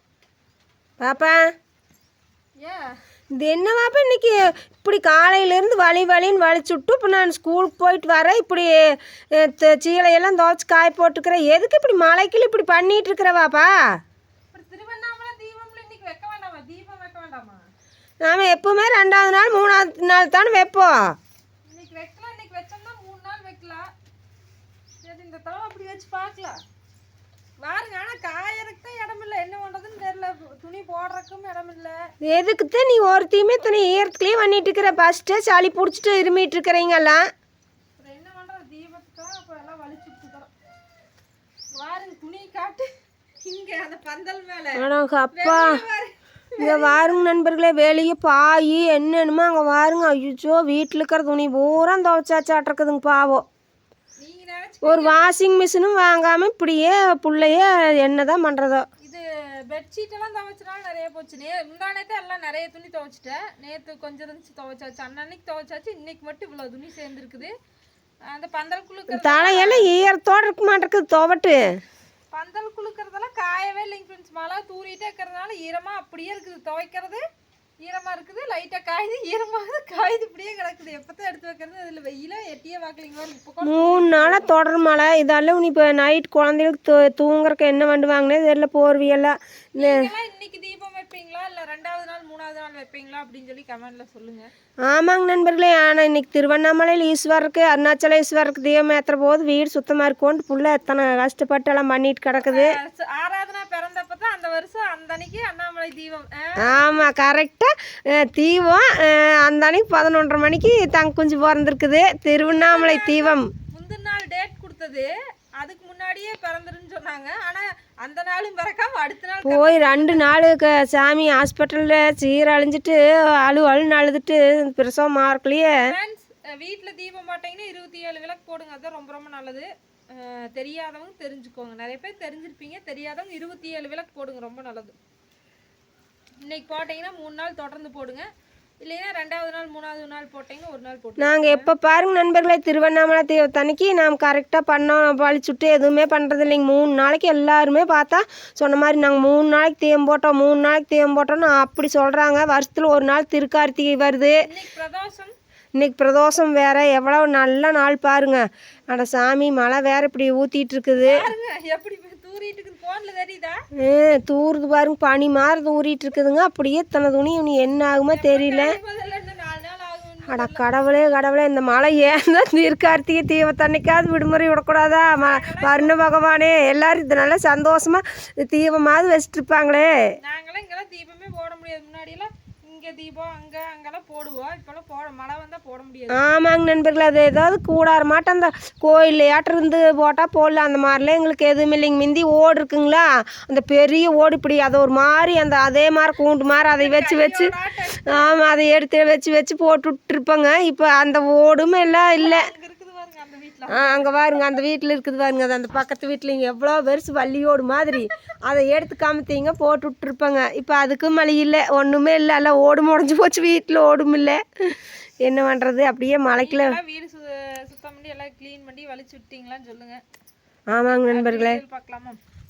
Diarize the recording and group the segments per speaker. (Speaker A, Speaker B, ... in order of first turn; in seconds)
Speaker A: 1.0-1.4, 3.3-13.7, 18.2-21.1, 32.2-37.2, 44.8-45.8, 46.6-53.4, 54.8-58.9, 69.1-71.6, 83.6-90.1, 94.9-102.8, 106.6-113.5, 119.4-125.7, 141.2-154.4, 155.8-161.3, 163.8-168.8, 170.3-179.9, 186.1-197.5, 198.1-202.5, 203.7-216.8, 220.7-221.6
Speaker B: 2.6-2.9, 14.5-17.6, 21.7-23.9, 25.0-26.6, 27.6-32.0, 38.0-40.5, 41.8-42.9, 43.4-47.2, 54.2-55.3, 59.0-67.5, 68.2-69.9, 72.3-77.2, 77.8-84.5, 89.8-94.5, 102.5-107.1, 112.5-120.3, 125.9-134.9, 136.4-138.3, 138.8-141.7, 154.4-155.3, 161.0-163.6, 168.1-170.6, 175.2-176.0, 180.2-186.2, 196.7-198.4, 202.2-204.4, 216.4-220.0, 220.8-222.2